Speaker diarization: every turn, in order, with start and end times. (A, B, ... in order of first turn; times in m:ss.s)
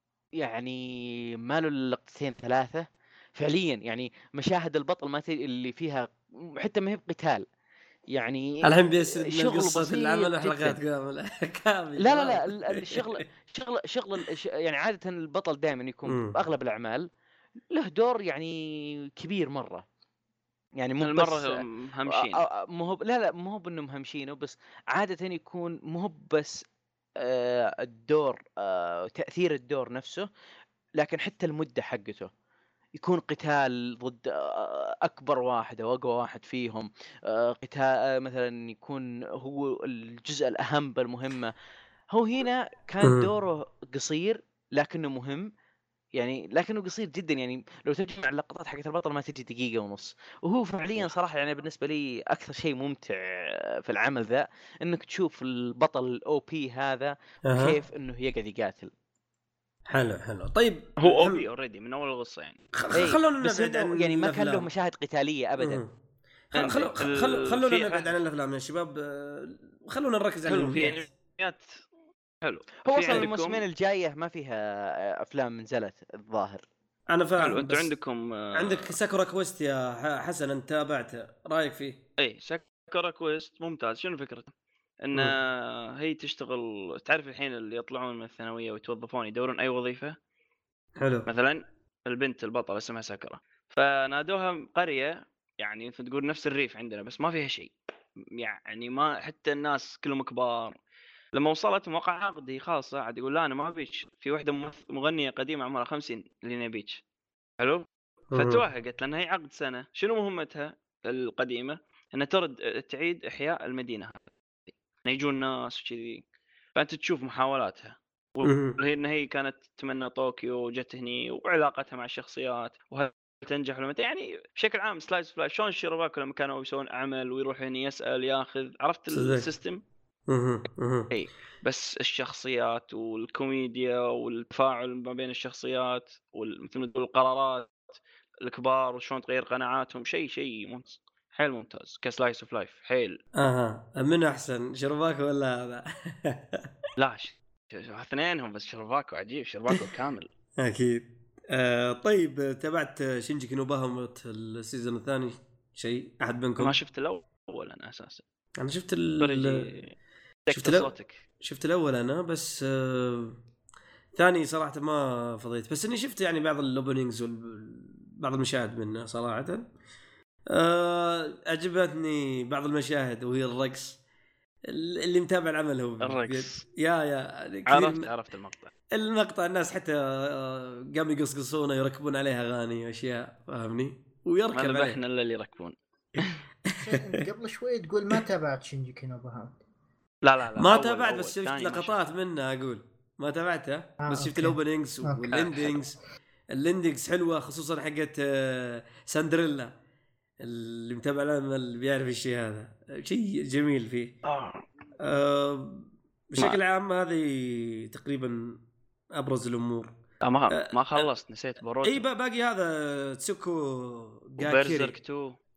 0:00.4-0:07.4 A
0:08.1-0:10.8 A
0:08.6-0:13.0 B
0:12.0-0:17.1 A
0:16.1-0:16.4 B
0:17.7-0:19.8 A
0:20.8-0:26.6 A
0:21.0-0:22.4 C
0:27.2-0:30.3 A
0:31.0-0:32.3 A
0:33.0-0:41.5 A
0:42.1-0:45.5 A
0:43.0-0:43.3 B
0:46.2-0:58.9 A
0:57.4-0:57.8 B
0:59.9-1:01.4 B
1:01.0-1:02.6 C
1:02.7-1:04.7 B
1:02.9-1:05.8 A
1:05.6-1:05.9 B
1:06.5-1:11.0 B
1:06.5-1:08.1 C
1:10.4-1:11.8 C
1:12.4-1:13.6 C
1:12.8-1:16.6 A
1:17.1-1:17.9 B
1:17.4-1:19.0 C
1:18.5-1:22.0 B
1:22.2-1:30.2 C
1:31.0-1:31.3 B
1:31.3-1:37.7 C
1:38.3-1:40.8 C
1:41.3-1:47.0 C
1:47.6-1:56.2 C
1:48.3-1:48.6 B
1:56.7-2:09.8 C
1:58.4-1:58.8 B
2:09.1-2:09.5 B
2:10.3-2:11.1 B
2:11.1-2:23.2 C
2:23.3-2:26.7 B
2:27.0-2:30.3 C
2:30.6-2:36.8 B
2:36.6-2:38.2 C
2:38.6-2:39.6 B
2:39.2-2:39.9 C
2:40.5-2:41.2 C
2:40.5-2:43.4 B
2:44.1-2:49.6 B
2:50.5-2:54.0 B
2:54.7-2:58.1 B
2:56.0-2:56.6 C
2:57.7-2:58.7 C
2:58.9-3:05.0 B
3:04.5-3:06.4 C
3:06.2-3:07.0 B
3:06.8-3:09.6 D
3:10.2-3:12.0 C
3:10.6-3:16.0 B
3:14.0-3:15.3 D
3:15.3-3:15.8 C
3:16.5-3:19.7 B
3:20.4-3:24.1 B
3:24.2-3:24.6 C
3:25.0-3:28.6 B
3:29.1-3:29.9 B
3:30.2-3:32.0 C
3:30.5-3:31.1 B
3:31.8-3:34.9 B
3:34.4-3:35.4 C